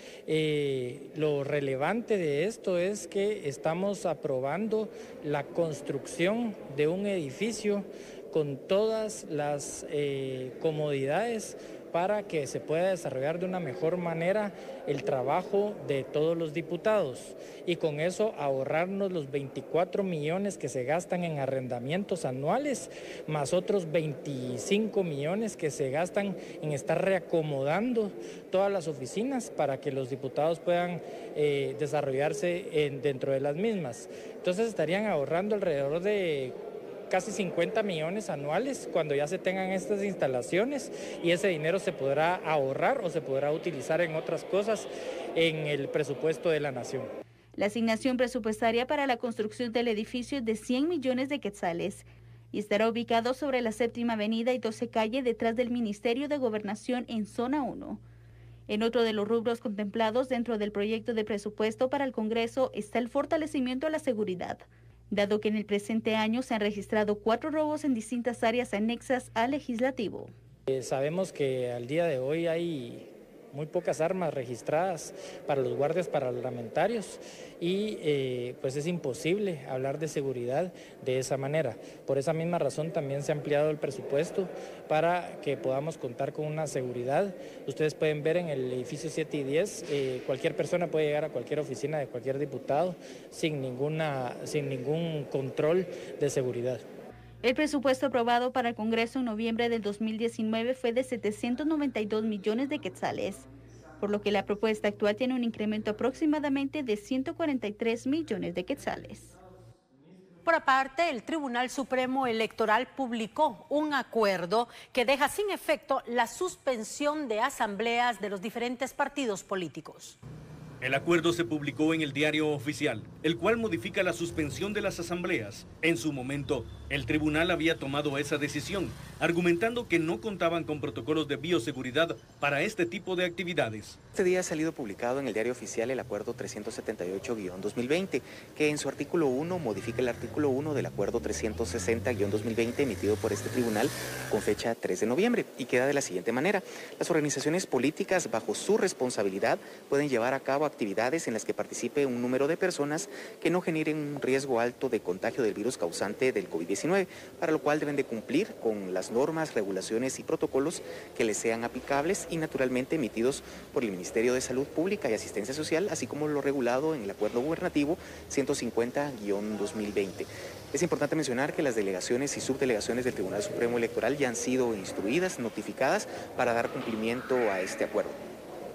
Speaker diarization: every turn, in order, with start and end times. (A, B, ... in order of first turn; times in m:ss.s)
0:00.3-0:36.6 A
0:37.1-0:47.1 A
0:47.6-0:58.0 B
0:58.7-1:10.3 B
1:10.7-1:36.8 A
1:37.4-1:43.5 B
1:44.0-1:49.4 B
1:50.5-2:00.2 C
2:00.8-2:14.0 D
2:14.1-2:58.2 E